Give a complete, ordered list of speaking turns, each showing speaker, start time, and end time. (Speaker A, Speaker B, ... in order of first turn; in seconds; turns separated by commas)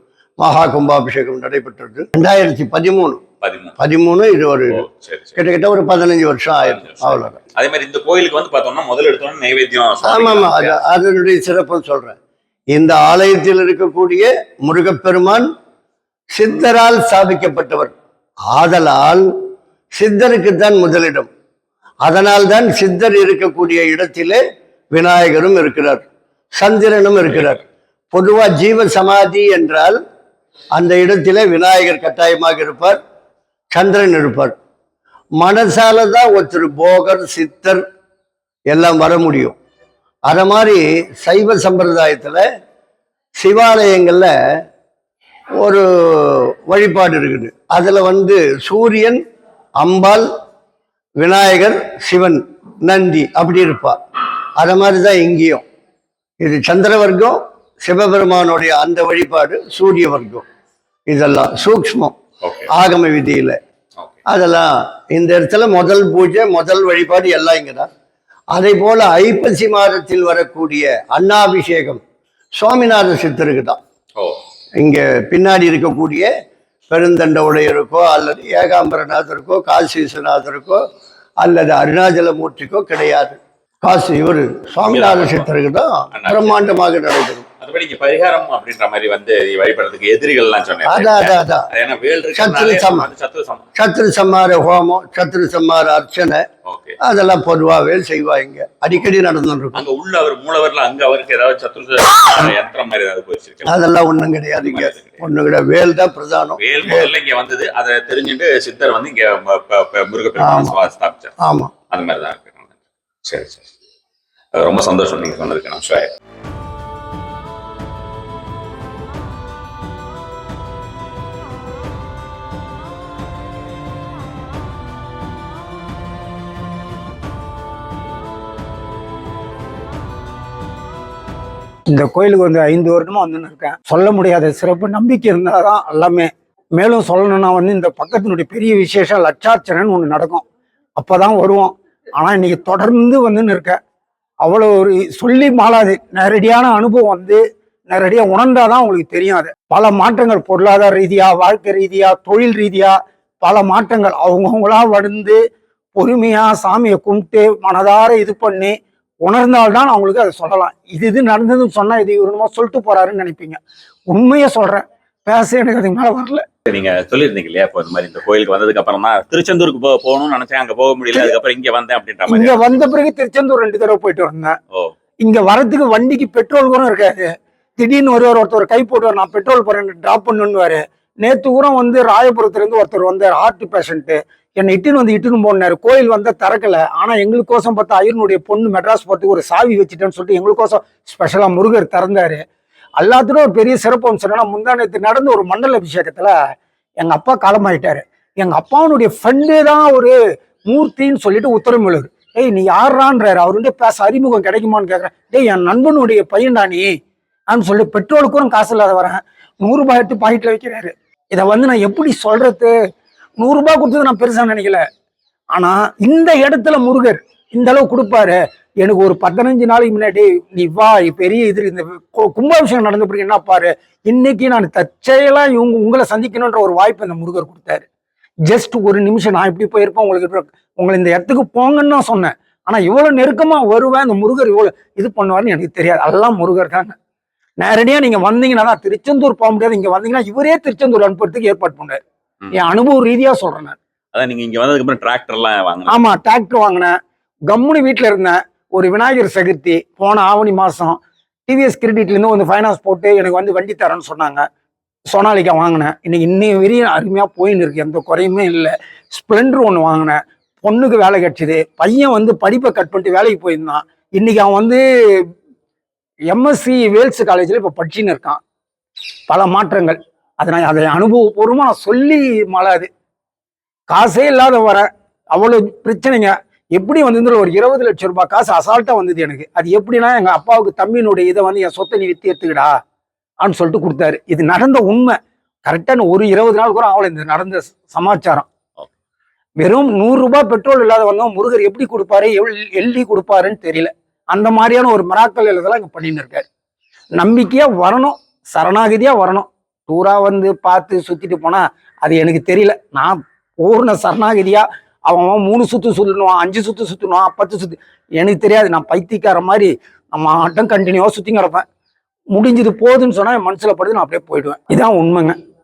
Speaker A: 0.4-3.2, Speaker B: 3.4-3.8, Speaker A: 3.8-4.8, Speaker B: 4.7-5.4, Speaker A: 5.4-7.4, Speaker B: 6.6-10.8, Speaker A: 10.0-12.2, Speaker A: 12.7-15.5, Speaker A: 16.3-17.9, Speaker A: 18.5-19.3, Speaker A: 20.0-21.3, Speaker A: 22.1-24.4, Speaker A: 24.9-26.1, Speaker A: 26.6-30.0, Speaker A: 30.8-33.0, Speaker A: 33.7-34.6, Speaker A: 35.4-37.8, Speaker A: 38.7-39.6, Speaker A: 40.3-42.4, Speaker A: 43.4-44.3, Speaker A: 45.6-49.2, Speaker A: 49.8-50.3, Speaker A: 51.2-54.0, Speaker A: 54.6-55.6, Speaker A: 56.4-60.5, Speaker A: 61.1-62.1, Speaker B: 62.4-62.7, Speaker A: 62.7-63.6, Speaker A: 64.3-67.9, Speaker A: 68.5-72.0, Speaker A: 72.6-73.8, Speaker A: 74.8-76.3, Speaker A: 76.9-80.8, Speaker A: 81.4-87.5, Speaker B: 84.8-85.5, Speaker B: 86.1-86.7, Speaker B: 87.6-93.7, Speaker A: 90.9-91.7, Speaker A: 92.3-93.1, Speaker A: 93.8-96.5, Speaker B: 96.7-97.0, Speaker A: 97.0-99.8, Speaker B: 99.7-103.7, Speaker A: 103.7-107.1, Speaker B: 104.6-105.2, Speaker B: 106.6-111.3, Speaker A: 110.4-110.8, Speaker A: 111.4-111.7, Speaker B: 111.9-113.7, Speaker B: 114.5-116.1, Speaker C: 131.9-140.4, Speaker C: 141.0-143.8, Speaker C: 144.4-155.4, Speaker C: 155.9-163.6, Speaker C: 164.1-166.4, Speaker B: 166.7-172.8, Speaker C: 172.3-174.6, Speaker C: 175.2-192.4, Speaker C: 193.0-196.4, Speaker C: 197.0-206.9, Speaker C: 207.5-212.7, Speaker C: 213.4-214.8, Speaker C: 215.5-227.8, Speaker C: 228.5-236.9, Speaker C: 237.6-242.0, Speaker C: 242.5-243.8, Speaker B: 244.1-246.0, Speaker C: 245.9-246.9, Speaker C: 247.5-254.4, Speaker C: 255.1-265.3, Speaker C: 266.3-268.4, Speaker C: 269.3-272.9, Speaker C: 273.9-282.8, Speaker C: 283.4-288.5, Speaker C: 289.6-296.5, Speaker C: 297.2-311.6, Speaker C: 312.3-315.4